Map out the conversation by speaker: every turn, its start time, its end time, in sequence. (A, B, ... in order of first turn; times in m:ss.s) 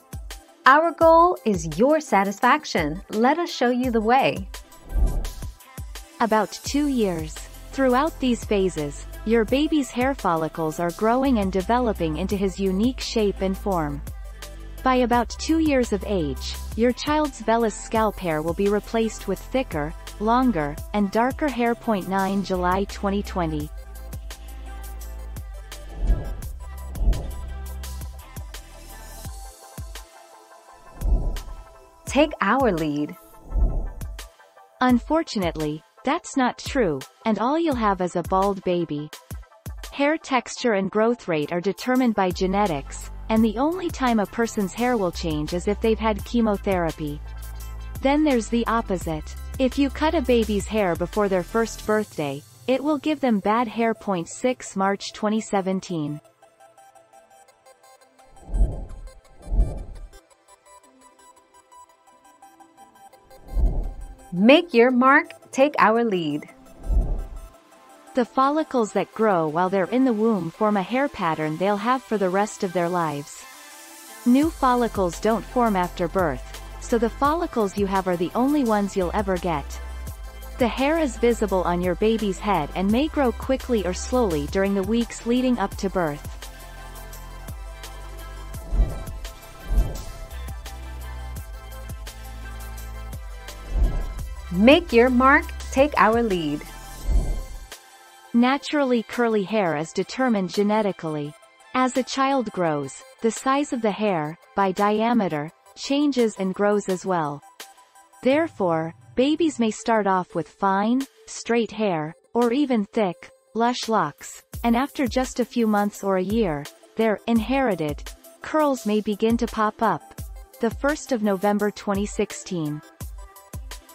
0:00.6-0:04.5 A
0:06.2-0:14.0 B
0:14.8-0:23.7 B
0:32.0-0:33.2 A
0:34.8-0:39.1 B
0:39.9-0:47.2 B
0:48.0-0:56.2 B
1:04.3-1:06.5 A
1:08.1-1:13.5 B
1:14.2-1:19.8 B
1:20.6-1:26.4 B
1:34.5-1:36.7 A
1:38.3-1:47.4 B
1:48.2-2:02.8 B